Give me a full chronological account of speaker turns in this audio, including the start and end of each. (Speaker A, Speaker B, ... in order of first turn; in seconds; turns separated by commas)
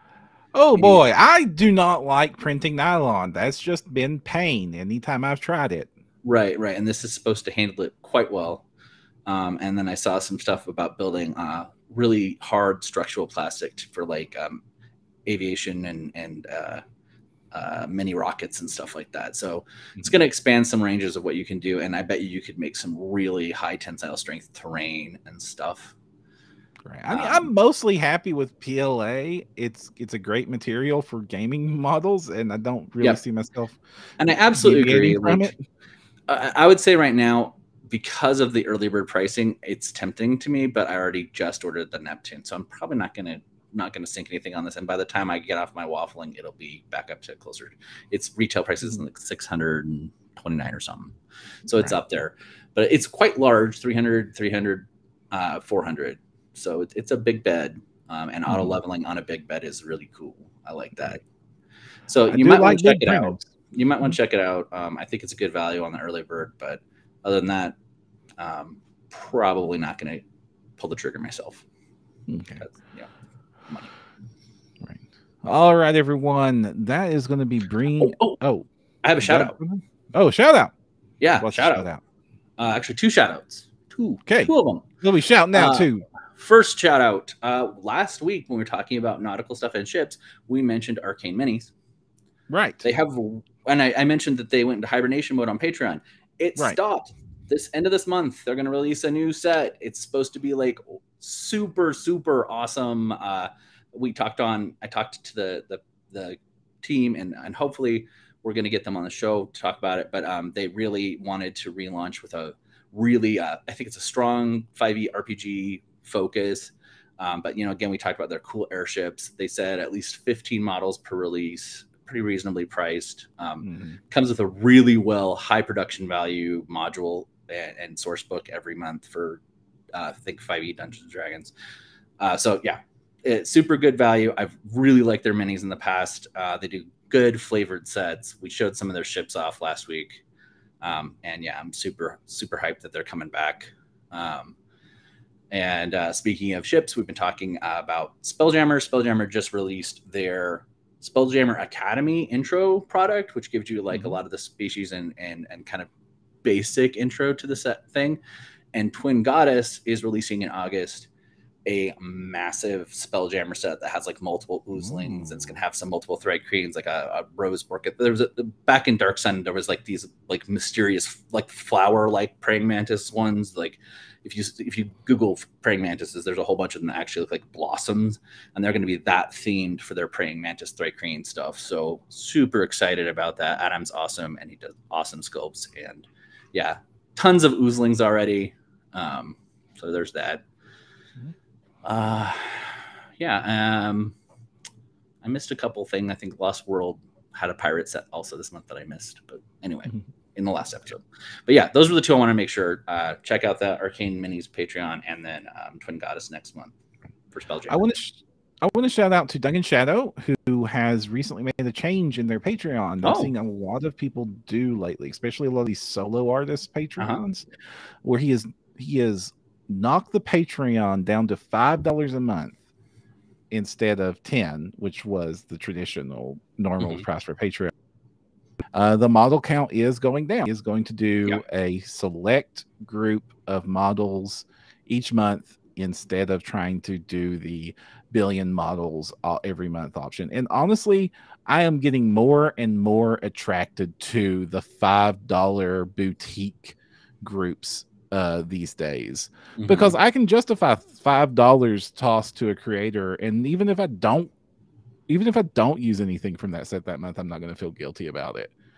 Speaker A: 0.5-5.9, Speaker B: 0.8-1.0, Speaker B: 6.2-8.7, Speaker B: 9.2-14.6, Speaker B: 15.2-16.8, Speaker B: 17.5-25.9, Speaker A: 26.9-33.8, Speaker B: 27.1-27.5, Speaker B: 34.2-35.5, Speaker A: 34.5-35.6, Speaker B: 36.3-61.2, Speaker A: 58.5-58.8, Speaker B: 62.1-67.7, Speaker A: 62.3-63.5, Speaker B: 68.4-70.2, Speaker B: 70.8-71.6, Speaker A: 72.3-72.6, Speaker B: 72.6-73.1, Speaker A: 74.8-78.7, Speaker B: 78.0-78.4, Speaker B: 79.0-79.5, Speaker A: 79.2-80.7, Speaker B: 81.2-81.9, Speaker A: 81.4-82.0, Speaker B: 82.6-84.9, Speaker A: 84.2-86.0, Speaker B: 85.5-91.7, Speaker A: 92.5-92.8, Speaker B: 92.8-129.4, Speaker A: 123.6-124.0, Speaker B: 129.9-131.5, Speaker B: 132.2-140.2, Speaker B: 140.8-144.6, Speaker B: 145.5-155.9, Speaker A: 153.9-154.2, Speaker B: 156.4-158.2, Speaker B: 158.7-161.1, Speaker B: 161.7-190.4, Speaker A: 164.9-165.4, Speaker B: 191.8-194.2, Speaker B: 195.2-206.7, Speaker B: 207.3-207.8, Speaker A: 207.7-217.5, Speaker B: 213.0-213.3, Speaker A: 218.0-222.6, Speaker A: 223.5-227.7, Speaker A: 228.7-254.3, Speaker B: 249.6-250.0, Speaker A: 255.1-258.5